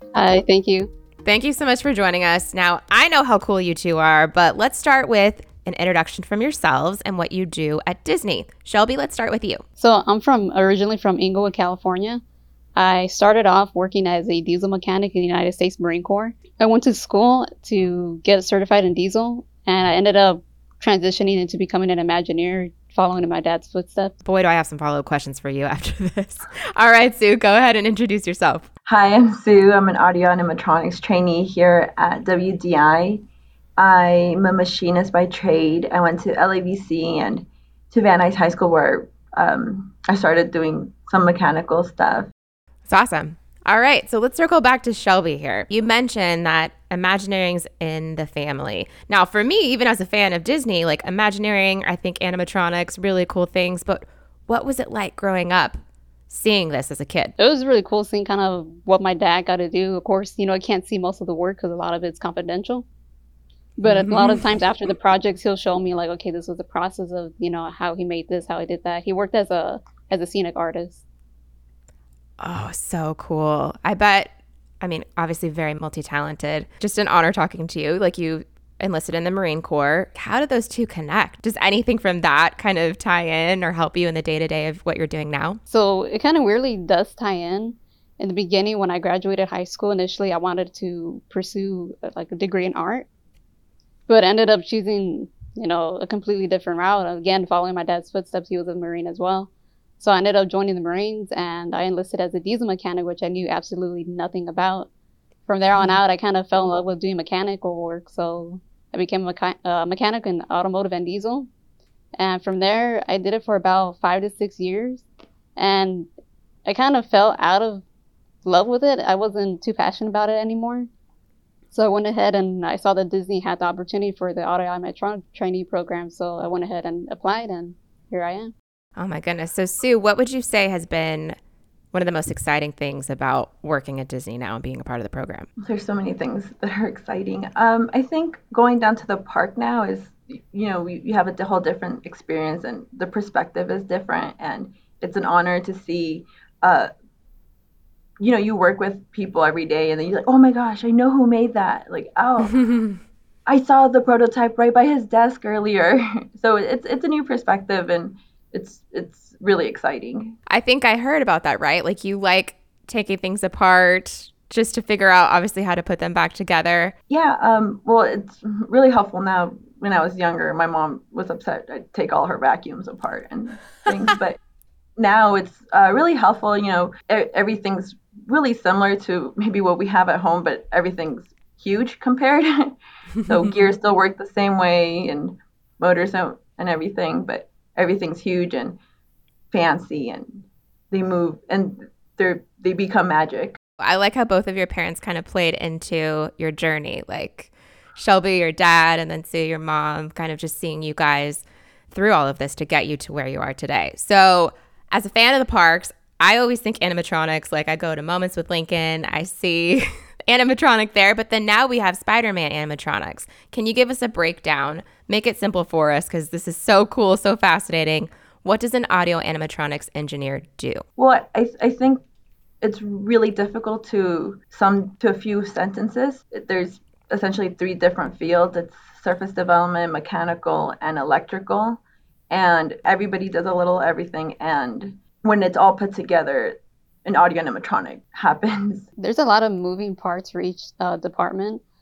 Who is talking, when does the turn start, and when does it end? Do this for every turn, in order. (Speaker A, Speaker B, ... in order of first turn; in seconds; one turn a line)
Speaker A: 0.1-0.9
Speaker B: 1.2-9.6
Speaker A: 9.8-12.2
Speaker A: 12.8-24.1
Speaker B: 24.2-28.7
Speaker C: 28.9-33.2
Speaker C: 33.8-42.3
Speaker B: 42.9-57.3
Speaker A: 57.4-62.9
Speaker A: 63.8-71.0
Speaker B: 63.9-64.6
Speaker B: 72.4-85.6
Speaker A: 85.7-93.1
Speaker A: 94.1-104.9
Speaker A: 105.5-111.5
Speaker A: 112.2-116.1
Speaker A: 116.7-117.8
Speaker A: 118.4-120.9
Speaker A: 121.7-128.5
Speaker B: 129.0-131.4
Speaker B: 131.9-135.5
Speaker C: 135.6-146.9
Speaker C: 148.2-152.7
Speaker C: 153.5-160.4
Speaker B: 160.5-166.9
Speaker C: 167.1-174.4
Speaker C: 175.0-188.8
Speaker C: 189.5-193.6
Speaker B: 193.8-220.8
Speaker C: 221.0-222.0
Speaker C: 222.6-238.9
Speaker A: 239.0-241.6